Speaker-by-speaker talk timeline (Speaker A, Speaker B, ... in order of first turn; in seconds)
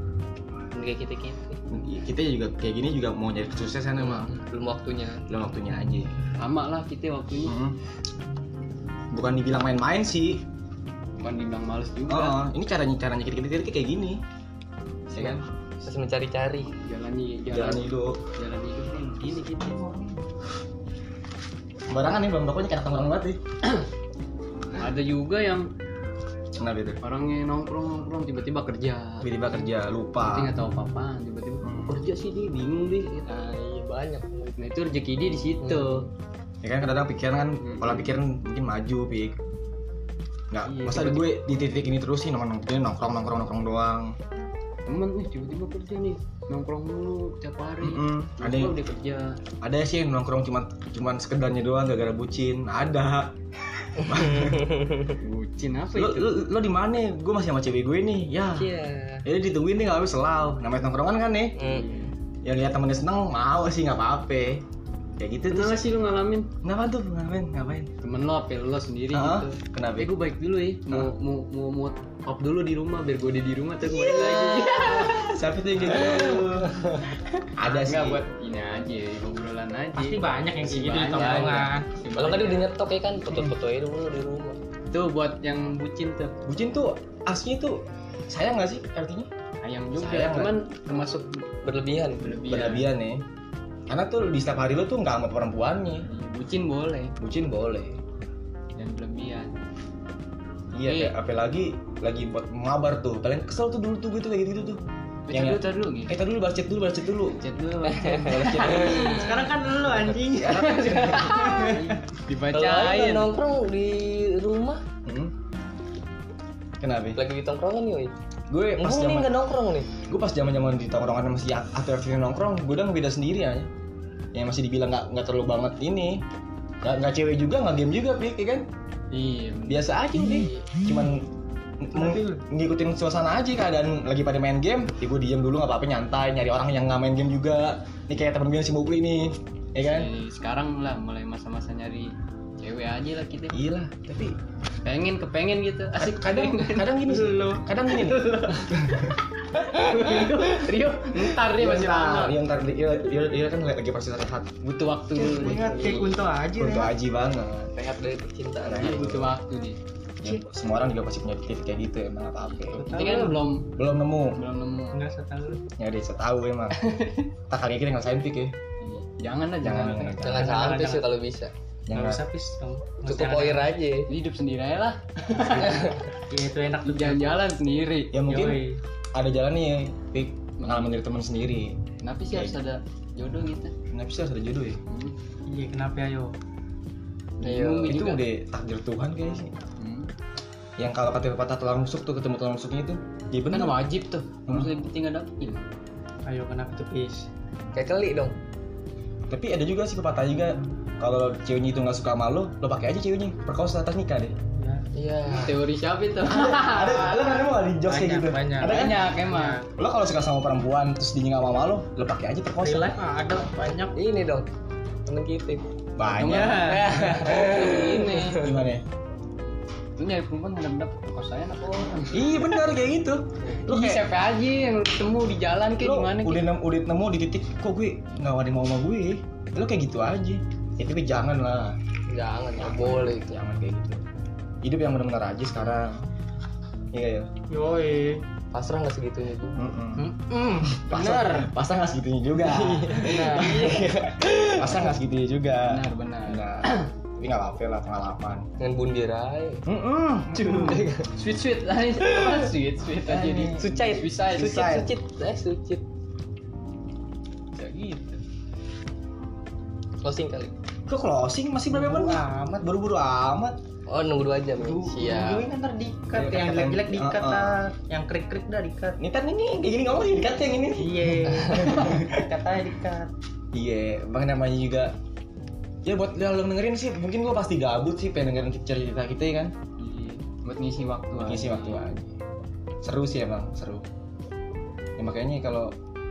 Speaker A: 0.7-1.6, 4.0-5.2, 15.8-16.7, 33.2-34.6, 35.6-36.0, 54.0-55.2, 58.5-59.2, 61.5-61.9, 82.2-84.6, 91.6-92.4, 107.8-109.2, 112.5-114.8, 117.1-118.1, 118.8-119.9, 155.5-156.1, 157.7-159.1, 170.2-171.5, 173.1-174.1, 175.6-176.0, 187.4-188.0, 197.7-198.3, 204.9-205.6, 213.9-214.5, 215.1-215.6, 216.6-218.5, 232.1-233.4, 238.5-239.6, 242.4-244.8, 248.6-249.6, 250.4-251.1, 253.6-255.8, 260.0-260.5, 263.9-265.5
Speaker B: 1.7-4.3, 5.3-6.1, 7.5-7.8, 9.1-10.4, 12.1-14.2, 15.1-15.4, 17.5-18.2, 21.9-23.4, 26.6-27.0, 29.2-30.5, 31.6-32.0, 36.6-39.4, 40.5-44.1, 47.8-48.8, 49.6-54.9, 55.9-58.7, 59.2-61.5, 62.4-64.6, 65.2-65.8, 66.6-67.9, 69.1-70.1, 73.8-76.9, 77.5-78.2, 86.5-89.3, 90.0-90.5, 92.5-93.2, 93.9-96.1, 97.2-98.0, 100.7-107.4, 110.4-111.8, 115.0-115.3, 116.8-117.2, 118.5-119.3, 120.0-123.7, 124.3-126.2, 126.8-128.7, 129.7-131.3, 131.8-140.1, 143.5-144.3, 145.9-149.2, 151.4-154.6, 156.6-157.7, 158.6-159.3, 160.2-162.9, 163.8-164.4, 165.8-166.8, 167.5-168.5, 169.6-170.6, 171.9-172.2, 178.1-181.8, 183.9-184.8, 187.8-189.5, 190.8-193.8, 194.5-194.7, 199.3-204.3, 206.2-209.1, 209.7-213.0, 216.0-218.8, 222.1-224.0, 225.8-231.8, 232.6-234.0, 234.6-236.0, 236.9-237.3, 239.6-240.1, 240.7-248.5, 249.7-250.8, 253.0-253.7, 254.3-254.9, 260.9-263.6, 266.1-267.6, 269.0-272.2, 273.5-274.9, 275.8-279.5, 281.2-282.1, 282.8-283.9, 285.0-285.7
Speaker C: 6.4-7.5, 11.2-12.4, 16.8-20.1, 24.8-25.7, 27.0-29.4, 30.2-33.2, 34.6-36.1, 37.6-38.1, 40.6-41.3, 44.9-49.3, 55.2-56.4, 61.7-62.1, 65.5-66.5, 68.0-75.3, 76.0-76.2, 77.6-82.7, 84.9-86.3, 89.6-91.4, 92.2-92.9, 96.1-97.1, 98.8-99.5, 100.8-101.1, 105.3-106.1, 107.4-109.5, 110.4-113.3, 129.1-130.5, 139.8-143.6, 144.8-146.9, 149.7-152.4, 154.6-156.1, 158.7-159.8, 162.5-163.7, 164.3-165.0, 166.7-167.3, 168.8-170.2, 174.1-176.0, 176.8-178.1, 180.6-181.0, 182.0-183.7, 184.9-185.1, 187.4-188.2, 189.8-190.1, 193.5-195.6, 205.3-207.3, 208.6-209.6, 216.2-218.5, 220.0-222.3, 223.6-226.5, 245.7-246.9, 250.5-254.7, 257.5-258.2, 279.8-281.9
Speaker D: 79.9-81.9, 108.8-111.9, 131.9-132.4, 147.0-148.2, 149.9-150.2, 155.1-156.9, 162.7-163.4, 164.9-165.6, 170.3-171.1, 171.9-173.7, 176.3-177.4, 178.3-178.8, 185.5-186.3, 196.2-197.3, 204.6-204.8, 207.9-209.6, 212.6-214.0, 216.2-216.9, 237.5-238.2, 240.0-241.5, 242.9-243.9, 261.7-262.6, 264.6-269.0, 270.8-273.1